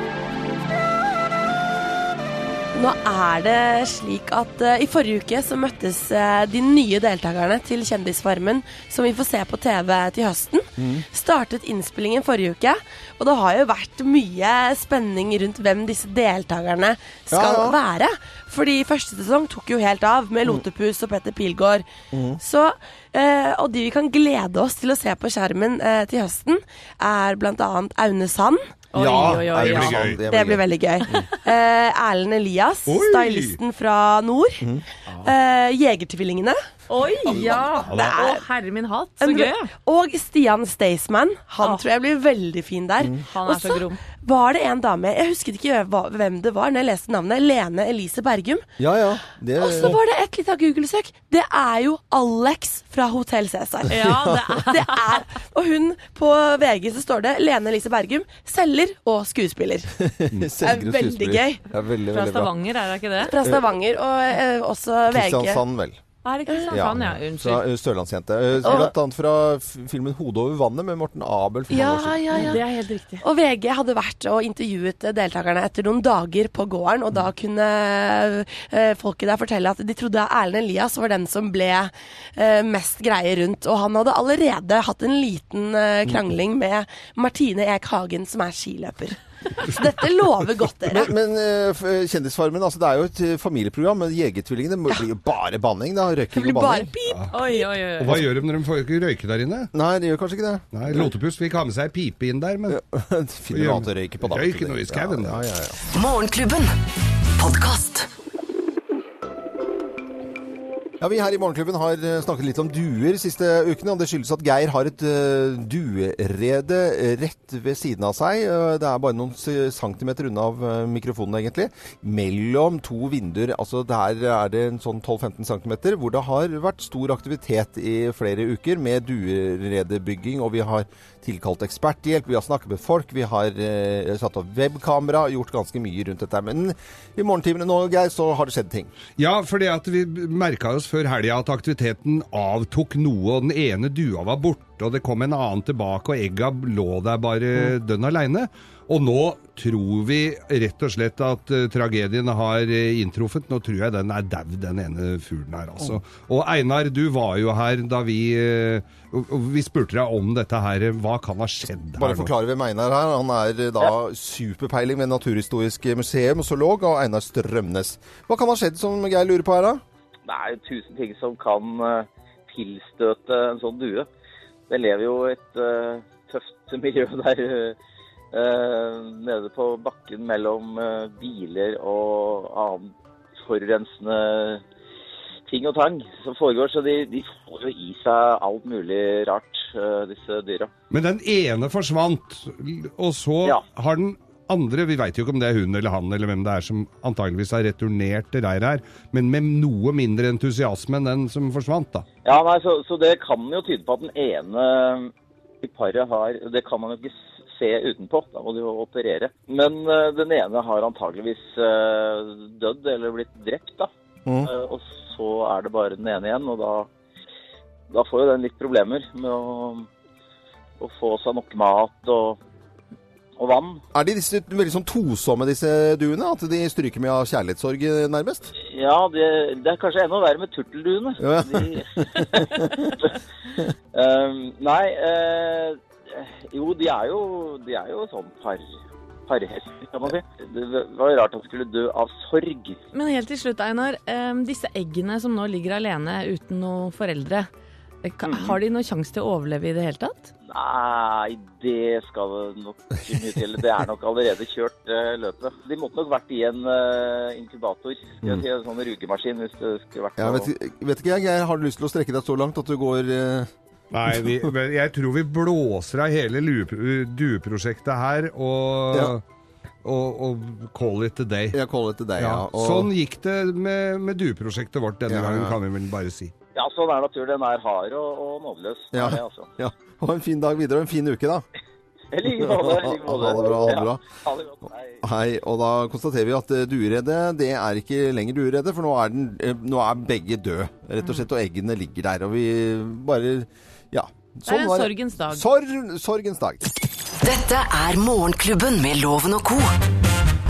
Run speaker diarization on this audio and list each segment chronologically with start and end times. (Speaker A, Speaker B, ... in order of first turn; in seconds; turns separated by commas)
Speaker A: 2.8-21.9, Speaker B: 10.8-11.1, Speaker B: 17.3-17.8, Speaker B: 22.1-22.4, Speaker A: 22.4-28.6, Speaker C: 28.9-30.1, Speaker D: 28.9-30.2, Speaker B: 29.0-31.2, Speaker A: 30.3-36.6, Speaker D: 32.9-33.6, Speaker C: 36.9-39.7, Speaker B: 37.3-37.7, Speaker A: 37.3-38.4, Speaker D: 37.8-38.2, Speaker A: 39.2-48.7, Speaker C: 43.2-44.0, Speaker B: 48.8-50.0, Speaker A: 49.6-54.0, Speaker C: 53.9-55.2, Speaker B: 54.0-54.6, Speaker A: 54.6-59.9, Speaker B: 60.0-62.5, Speaker A: 60.6-61.6, Speaker C: 62.1-63.3, Speaker A: 63.2-65.6, Speaker B: 65.1-66.0, Speaker C: 66.2-67.7, Speaker A: 66.5-66.8, Speaker B: 66.7-72.6, Speaker A: 68.6-68.9, Speaker A: 71.7-72.6, Speaker C: 72.3-73.2, Speaker A: 73.2-91.1, Speaker B: 90.9-96.9, Speaker A: 96.3-97.7, Speaker C: 97.3-98.2, Speaker D: 98.0-99.7, Speaker B: 99.7-101.1, Speaker D: 100.7-102.8, Speaker B: 102.7-105.8, Speaker D: 103.5-105.4, Speaker E: 105.9-106.8, Speaker E: 107.4-108.1, Speaker B: 111.0-138.9, Speaker D: 139.2-162.3, Speaker B: 162.0-169.8, Speaker F: 170.3-174.1, Speaker F: 174.7-177.8, Speaker F: 178.3-184.6, Speaker F: 185.5-190.7, Speaker D: 190.9-202.1, Speaker F: 202.2-213.9, Speaker B: 214.3-214.5, Speaker F: 214.4-216.9, Speaker F: 217.9-219.9, Speaker F: 220.8-222.4, Speaker F: 223.4-223.8, Speaker B: 223.9-228.5, Speaker F: 228.6-233.2, Speaker B: 231.2-233.0, Speaker F: 233.9-238.7, Speaker F: 239.3-242.8, Speaker C: 242.9-247.5, Speaker C: 248.0-250.3, Speaker F: 248.2-248.6, Speaker F: 250.5-260.5, Speaker B: 260.2-263.5, Speaker D: 263.9-269.2, Speaker D: 269.8-271.6, Speaker B: 271.5-272.9, Speaker D: 272.2-276.3, Speaker B: 275.1-275.6, Speaker F: 276.6-279.5, Speaker B: 278.9-281.4, Speaker F: 282.1-285.0, Speaker B: 282.2-284.0, Speaker B: 285.0-296.7, Speaker C: 294.5-295.4, Speaker E: 297.2-299.7